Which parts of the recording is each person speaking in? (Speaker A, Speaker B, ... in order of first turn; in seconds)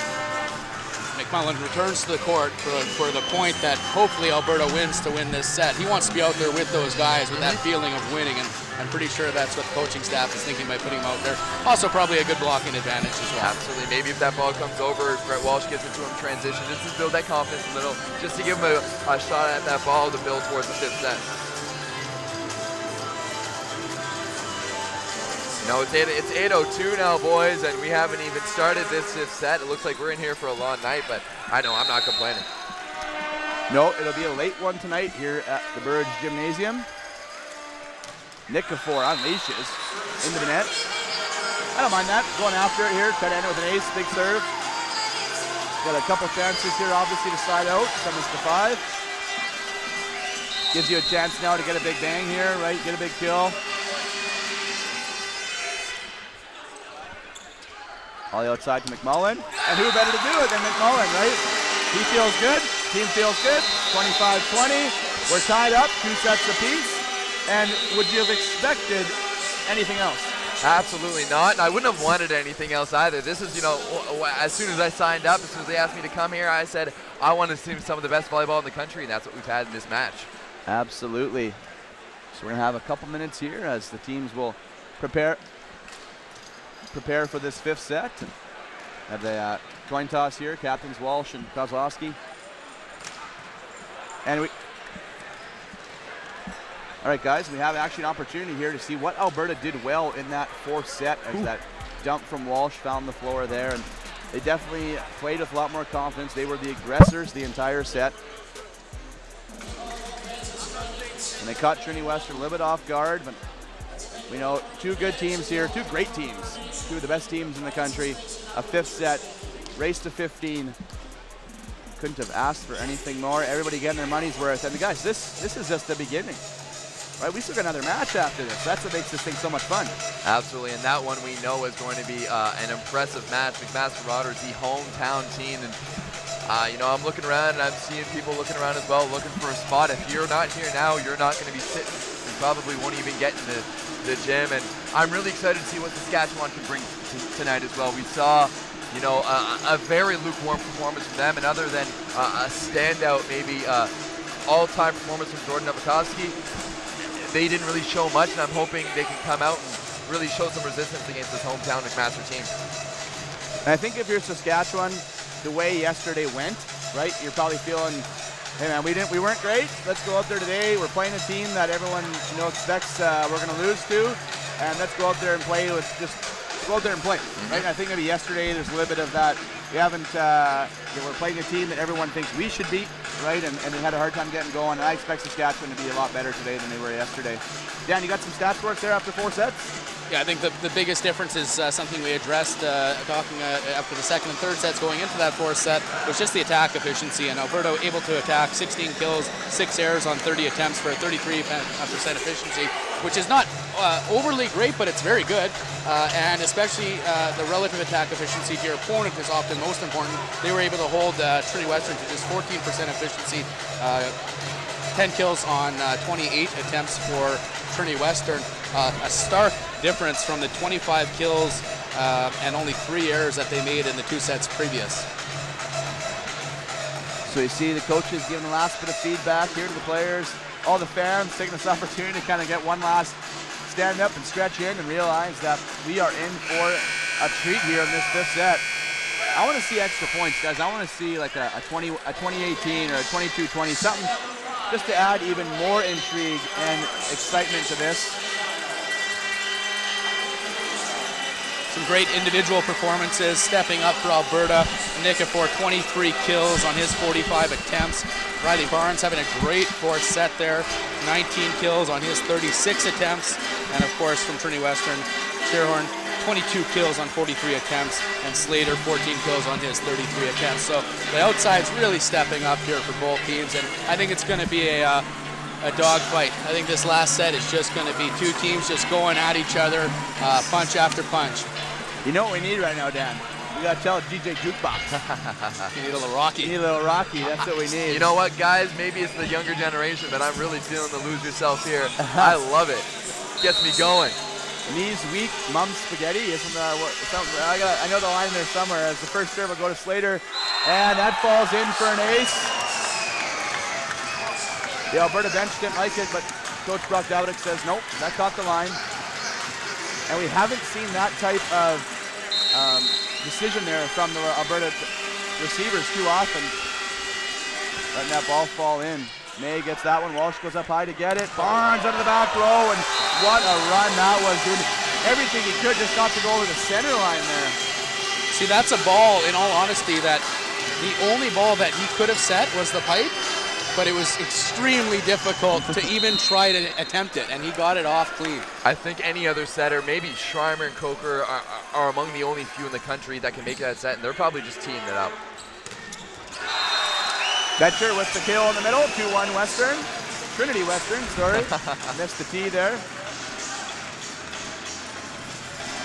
Speaker A: 1.1-13.5, 190.1-214.1, 214.9-225.1, 251.7-275.0, 275.6-281.5, 285.7-286.6, 328.3-330.2, 330.8-333.1, 333.7-338.5
Speaker B: 7.3-7.6, 13.4-21.2, 25.6-32.5, 70.6-80.3, 130.2-135.8, 136.4-153.9, 154.4-156.4, 157.1-162.5, 177.4-177.7, 285.0-285.7, 287.9-294.2, 338.6-345.2, 351.4-351.8
Speaker C: 33.7-36.9, 38.5-40.7, 41.7-44.5, 45.8-48.8, 50.7-53.6, 58.3-66.9, 67.5-70.3, 80.7-81.6, 82.3-85.4, 86.9-88.3, 89.1-92.2, 94.2-94.5, 97.0-108.1, 111.4-113.4, 114.3-119.2, 119.8-120.8, 122.0-126.4, 127.2-129.9, 163.6-168.1, 168.6-189.7, 227.2-238.6, 239.3-244.1, 244.7-248.2, 282.0-284.9, 286.4-288.1, 292.0-292.4, 294.7-302.5, 304.9-308.8, 310.1-311.9, 312.5-316.5, 317.9-327.6, 347.6-352.8